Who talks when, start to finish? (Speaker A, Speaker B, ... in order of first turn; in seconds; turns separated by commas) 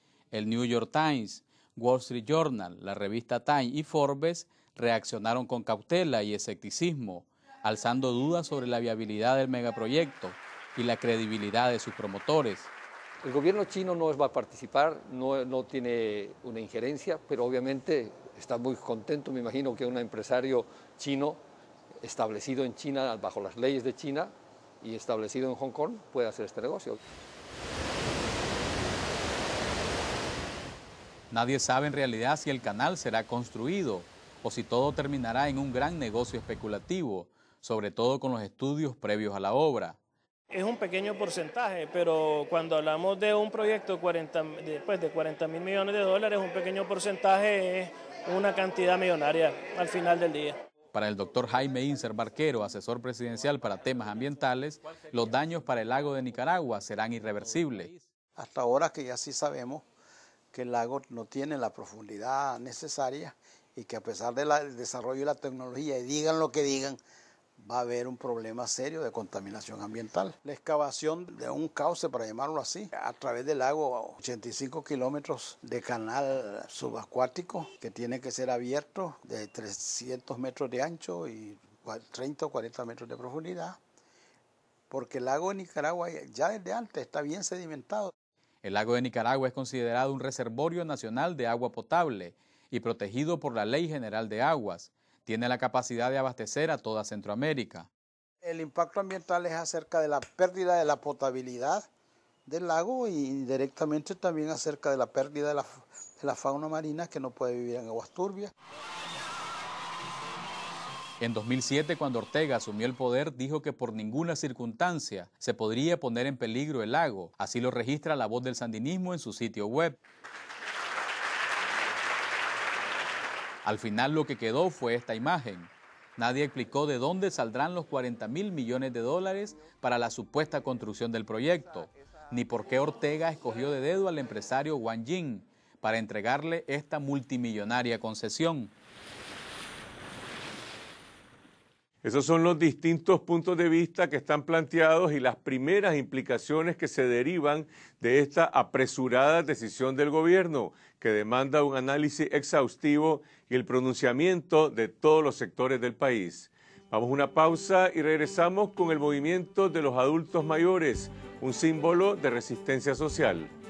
Speaker A: 0.3-12.7, Speaker B: 13.2-21.4, Speaker B: 22.0-27.0, Speaker A: 31.3-40.0, Speaker C: 40.5-50.6, Speaker A: 50.9-58.0, Speaker D: 58.4-59.8, Speaker D: 60.5-67.0, Speaker D: 67.6-83.8, Speaker D: 84.9-88.1, Speaker A: 88.6-97.9, Speaker D: 98.4-101.9, Speaker D: 102.5-108.5, Speaker A: 111.2-120.0, Speaker A: 123.7-138.7, Speaker E: 142.0-163.5